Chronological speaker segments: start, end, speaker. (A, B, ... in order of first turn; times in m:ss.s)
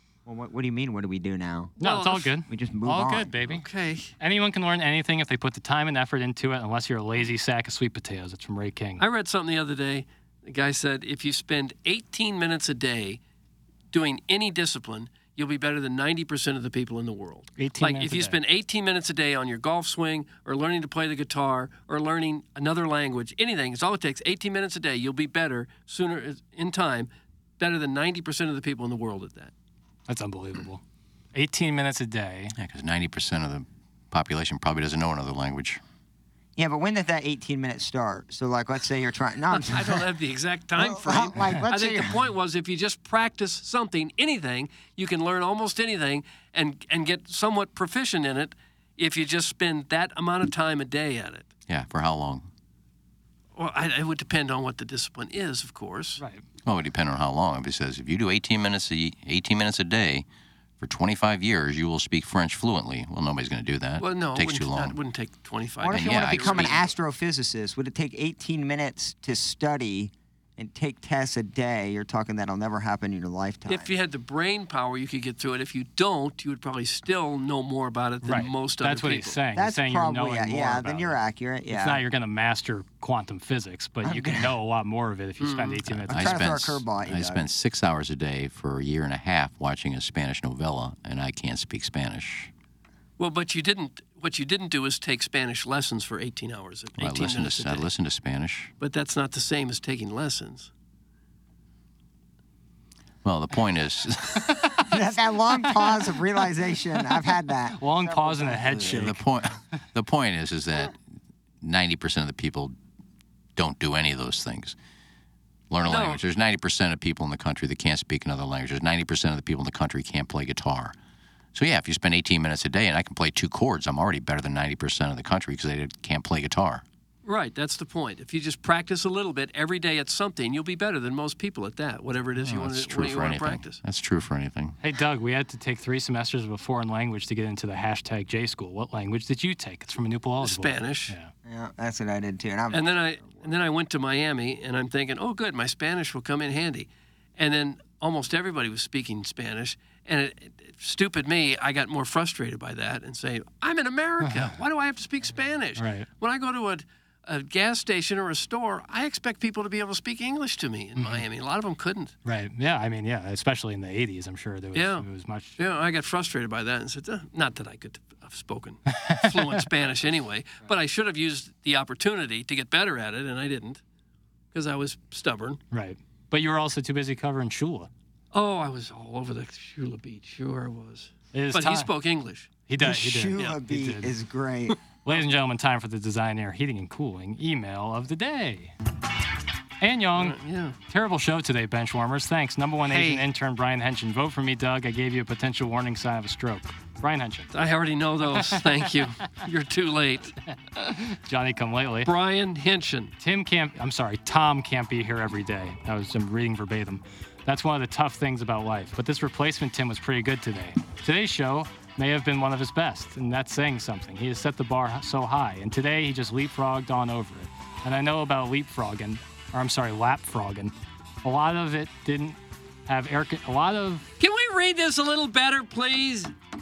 0:00.3-0:01.7 A
0:01.8-0:02.3 B
0:01.8-0:03.6 C
0:02.5-0:03.3 A
0:03.4-0:04.1 B
0:04.2-0:09.0 C
0:09.0-0:13.2 B
0:13.9-0:29.5 B
0:17.6-0:18.4 C
0:30.1-0:30.8 C
0:31.3-0:32.5 C
0:32.6-0:35.8 D
0:36.6-0:40.1 A
0:39.5-0:51.5 B
0:40.8-0:42.3 A
0:51.7-0:52.5 D
0:53.6-0:56.2 B
0:56.2-0:56.4 C
0:56.6-1:00.3 D
1:00.8-1:05.0 D
1:04.0-1:06.9 B
1:05.8-1:13.9 A
1:05.9-1:06.8 D
1:13.7-1:19.4 B
1:18.2-1:21.2 C
1:19.6-1:22.0 A
1:21.7-1:26.5 C
1:24.0-1:24.6 A
1:25.4-1:26.0 B
1:26.1-1:27.5 A
1:26.1-1:32.5 D
1:33.2-1:37.9 B
1:37.0-1:38.7 D
1:38.8-1:40.7 B
1:43.2-1:44.9 D
1:44.9-1:49.2 A
1:47.8-1:49.2 C
1:48.8-1:51.0 D
1:51.6-1:52.8 D
1:53.6-1:54.8 D
1:55.7-2:00.9 D
1:55.8-1:56.2 B
2:01.6-2:06.8 D
2:07.2-2:13.8 B
2:12.4-2:14.8 D
2:14.8-2:21.3 C
2:20.4-2:21.1 B
2:21.4-2:23.5 A
2:22.7-2:42.2 B
2:34.2-2:34.5 C
2:35.8-2:36.1 C
2:41.0-2:41.2 C
2:42.2-2:45.6 C
2:44.7-2:45.0 B
2:45.6-2:53.8 B
2:48.9-2:49.6 C
2:54.5-2:55.6 B
2:55.7-2:57.9 C
2:58.3-3:02.5 B
3:01.3-3:01.9 C
3:02.7-3:04.1 C
3:02.8-3:04.8 A
3:03.4-3:03.6 B
3:05.0-3:08.8 C
3:09.8-3:10.4 C
3:10.2-3:10.8 B
3:10.9-3:17.5 C
3:12.9-3:13.3 B
3:17.5-3:20.4 B
3:18.4-3:18.9 C
3:20.7-3:22.1 C
3:22.0-3:23.1 B
3:23.2-3:44.1 C
3:44.2-3:46.3 B